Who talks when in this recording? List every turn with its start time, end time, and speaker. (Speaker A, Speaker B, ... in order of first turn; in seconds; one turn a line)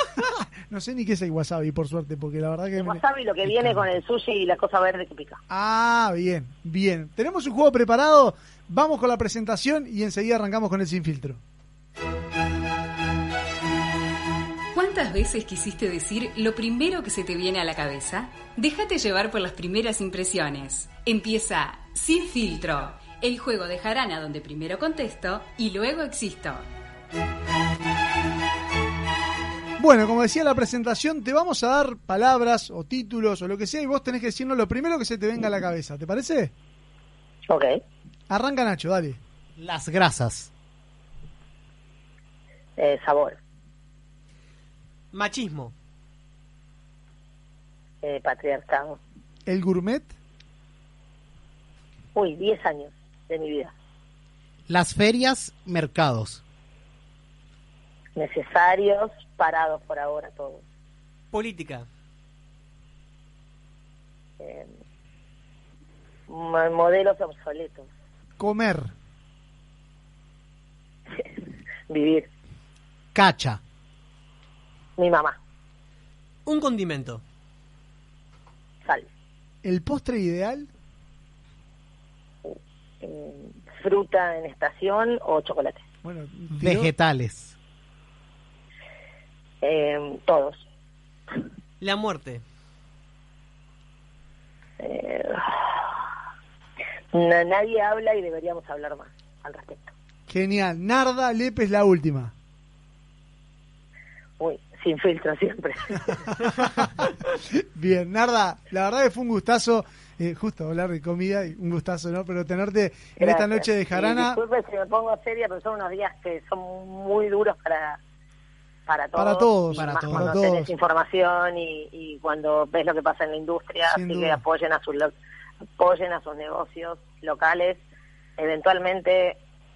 Speaker A: 0.2-3.8
Speaker B: 2.8-5.4
Speaker A: 5.5-11.4
Speaker C: 14.7-26.6
Speaker A: 29.8-36.5
Speaker B: 37.5-37.8
Speaker A: 38.3-39.2
Speaker D: 39.6-40.5
Speaker B: 42.8-43.4
Speaker E: 45.1-45.7
Speaker B: 48.0-49.0
Speaker A: 49.5-50.1
Speaker B: 52.1-53.7
Speaker D: 54.7-56.4
Speaker B: 58.2-60.6
Speaker E: 61.3-61.9
Speaker B: 64.4-64.7
Speaker B: 66.3-67.9
Speaker A: 68.4-68.9
Speaker B: 71.9-72.3
Speaker D: 73.1-73.6
Speaker B: 75.0-75.4
Speaker E: 76.5-77.2
Speaker A: 79.6-80.7
Speaker B: 82.5-85.8
Speaker A: 86.0-86.9
Speaker D: 86.5-87.5
Speaker B: 89.6-90.6
Speaker E: 91.8-92.4
Speaker B: 94.8-95.8
Speaker B: 97.1-99.9
Speaker A: 100.3-102.3
Speaker B: 104.4-105.9
Speaker A: 106.6-106.9
Speaker A: 107.8-114.4
Speaker B: 113.2-118.0
Speaker B: 118.9-125.1
Speaker A: 119.2-120.7
Speaker D: 119.7-120.3
Speaker A: 123.9-124.4
Speaker B: 125.8-127.8
Speaker B: 128.4-129.4